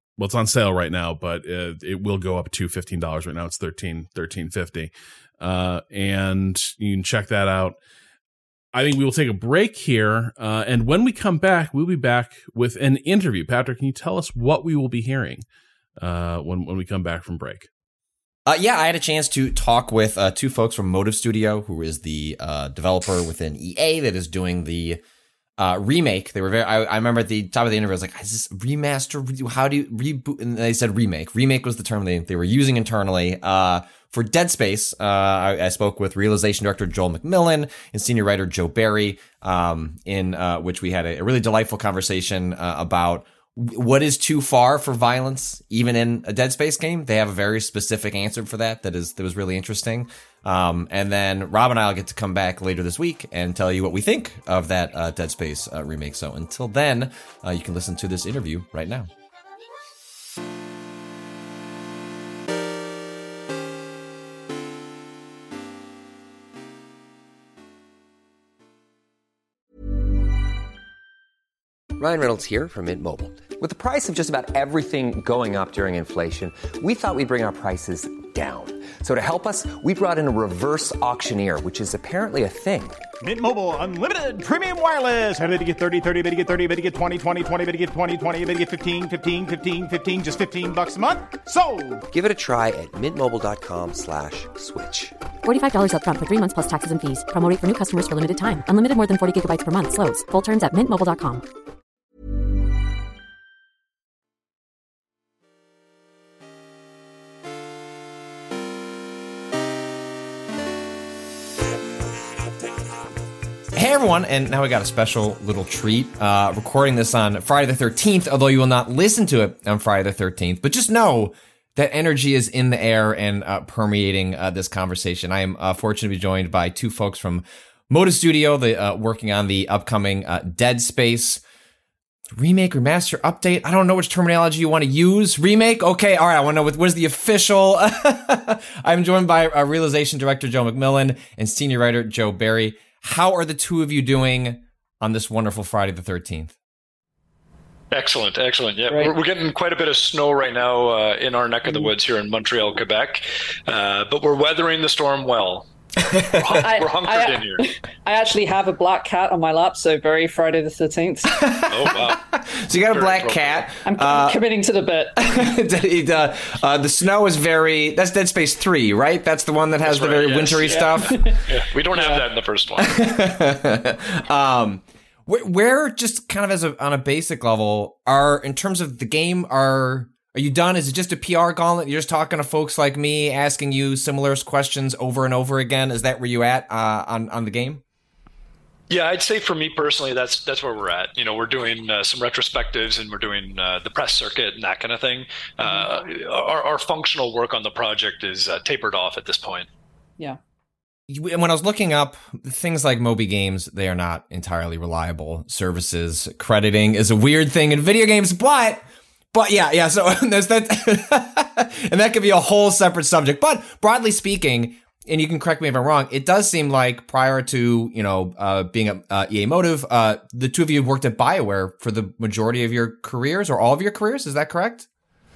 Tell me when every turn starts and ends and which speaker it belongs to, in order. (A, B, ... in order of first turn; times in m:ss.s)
0:00.2-0:07.8 A
0:08.7-0:15.4 A
0:16.0-0:17.7 A
0:18.4-0:25.0 B
0:25.6-0:59.1 B
1:12.0-1:23.0 C
1:23.2-1:32.0 D
1:32.1-1:35.2 C
1:35.4-1:41.4 E
1:53.7-2:11.4 B
2:12.3-2:26.5 B
2:27.9-2:35.6 F
2:28.9-2:29.1 G
2:36.0-2:36.4 B
2:36.3-2:37.6 F
2:36.5-2:41.4 G
2:41.4-2:44.4 B
2:41.7-2:42.3 F
2:42.9-2:43.6 F
2:43.8-2:45.5 G
2:45.2-2:51.3 B
2:49.8-2:53.0 F
2:50.7-2:51.4 G
2:51.9-2:52.2 G
2:52.8-3:07.8 B
3:08.9-3:19.7 F
3:21.1-3:44.9 B